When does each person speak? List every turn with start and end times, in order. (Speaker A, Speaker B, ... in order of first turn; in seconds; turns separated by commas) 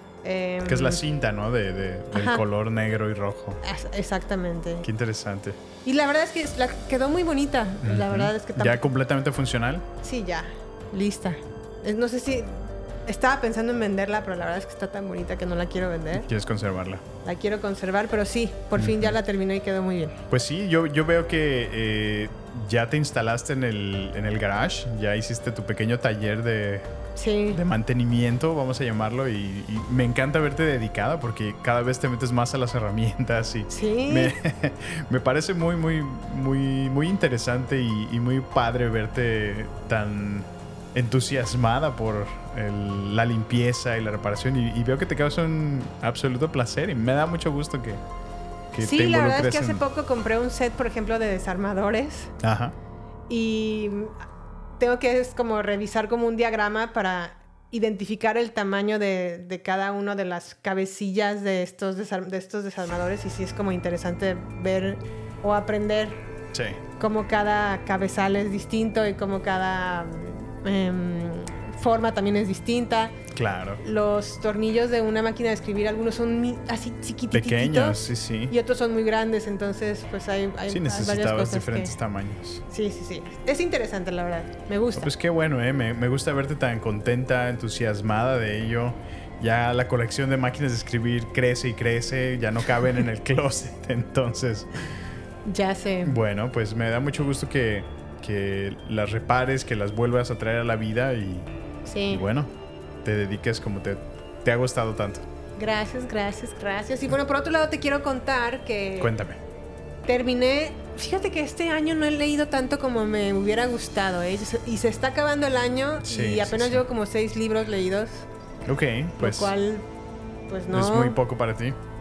Speaker A: 0.2-1.0, Speaker B: 0.6-3.6, Speaker A: 2.1-2.4, Speaker A: 3.6-4.9, Speaker B: 4.8-5.6, Speaker A: 5.8-8.8, Speaker B: 7.8-9.9, Speaker A: 10.0-16.3, Speaker B: 16.1-17.0, Speaker A: 17.2-20.2, Speaker B: 18.7-19.2, Speaker B: 20.3-26.9, Speaker A: 27.1-27.6, Speaker B: 27.5-48.0, Speaker A: 33.7-34.3, Speaker B: 48.7-49.8, Speaker A: 48.8-52.3, Speaker B: 52.4-52.8, Speaker A: 53.3-54.1, Speaker A: 54.7-66.2, Speaker B: 66.5-66.8, Speaker A: 67.0-73.2, Speaker B: 73.3-73.8, Speaker A: 73.8-81.9, Speaker B: 77.3-78.5, Speaker B: 80.7-82.6, Speaker A: 82.7-85.1, Speaker B: 84.9-94.7, Speaker A: 95.5-96.2, Speaker B: 96.0-101.5, Speaker A: 101.8-102.2, Speaker B: 102.1-102.5, Speaker B: 103.0-105.2, Speaker A: 105.6-109.1, Speaker B: 109.0-109.4, Speaker A: 110.0-118.3, Speaker B: 116.0-116.8, Speaker B: 118.7-119.5, Speaker A: 119.2-119.8, Speaker A: 120.5-121.2, Speaker B: 120.7-121.8